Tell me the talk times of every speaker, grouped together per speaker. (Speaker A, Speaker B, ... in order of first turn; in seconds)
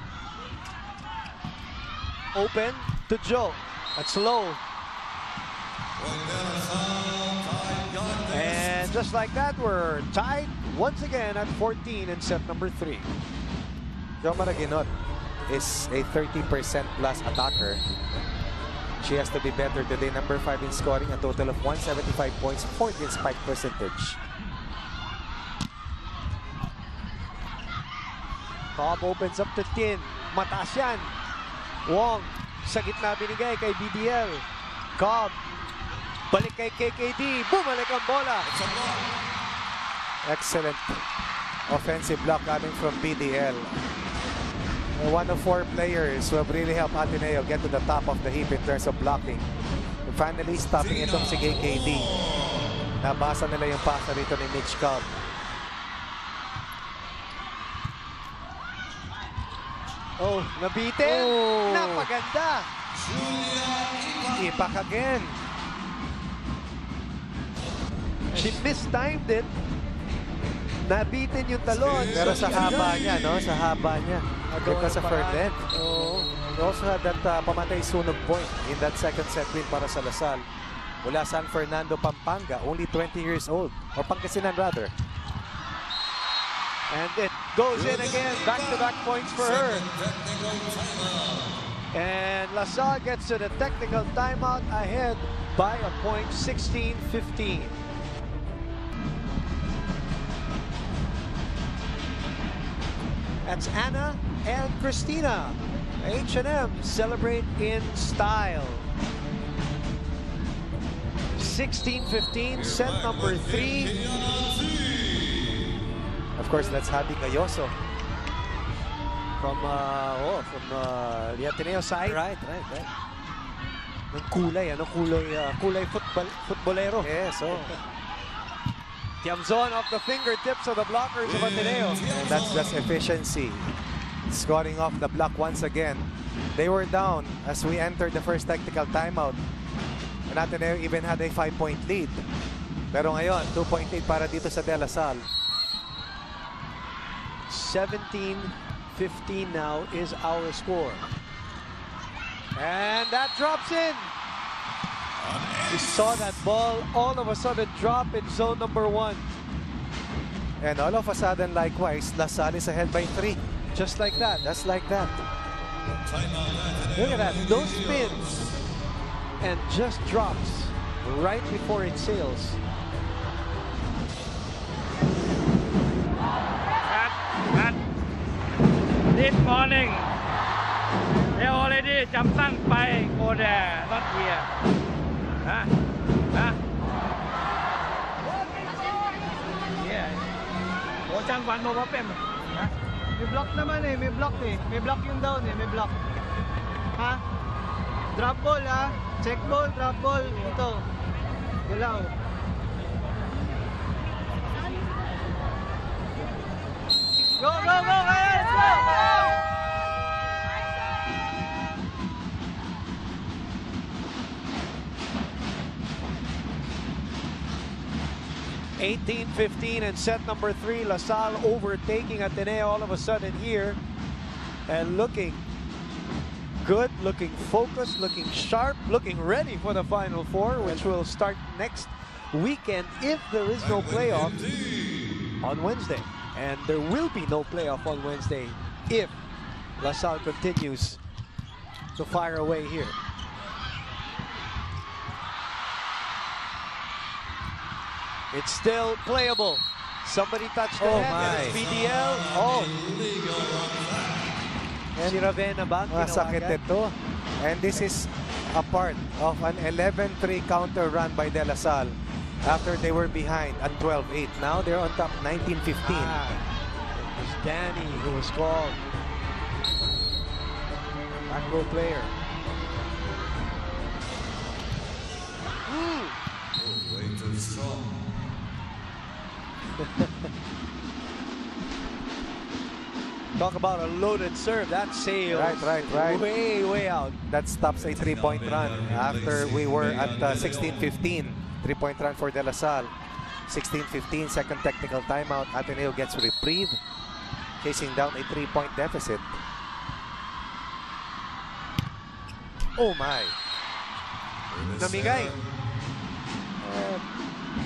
Speaker A: 2.3-4.6, 8.3-13.1, 28.7-31.1, 31.9-34.4, 35.0-35.3, 36.3-38.5, 60.2-62.7, 68.3-69.5, 70.8-72.8, 74.5-76.3, 86.9-89.8, 91.9-97.8, 103.5-108.8, 111.4-113.9, 119.4-122.2, 124.1-127.7, 129.2-132.0, 147.5-151.1, 152.6-154.1, 155.7-159.3, 163.7-164.4, 166.9-168.2, 169.4-172.6, 218.8-223.8, 224.7-225.4, 226.6-234.4, 235.4-239.1, 239.8-241.0, 242.0-242.9, 248.3-252.7, 255.0-256.6, 265.8-266.4, 266.9-268.8, 271.3-272.1, 275.7-276.1, 279.8-280.1, 283.4-287.2, 304.8-305.4
Speaker B: 6.0-8.9, 38.4-39.1, 50.7-52.7, 62.9-64.6, 71.7-73.5, 87.7-91.6, 112.5-115.6, 131.2-132.8, 155.2-156.3, 166.1-168.5, 233.6-235.2, 251.0-254.4, 276.6-278.1, 287.9-290.9, 304.5-305.4
Speaker C: 14.2-14.9, 15.5-17.8, 19.0-24.2, 40.2-41.0, 41.7-43.8, 45.0-49.4, 50.0-52.1, 53.0-55.1, 61.0-62.1, 64.3-65.4, 72.1-75.7, 76.5-80.4, 81.0-84.9, 116.4-117.7, 122.0-122.9, 127.0-127.7, 132.1-133.7, 134.3-139.4, 140.3-142.2, 142.9-145.2, 160.6-163.4, 164.4-165.2, 230.6-230.9, 250.8-251.6, 254.9-255.3, 255.9-266.2, 285.3-286.2, 287.3-292.9, 293.5-296.8, 297.6-299.4, 302.8-303.4, 306.6-307.0
Speaker D: 176.8-177.8, 179.1-180.1, 181.3-184.4, 189.8-190.2, 191.1-192.2
Speaker E: 193.2-195.9, 198.1-200.8, 201.7-202.1, 207.4-209.3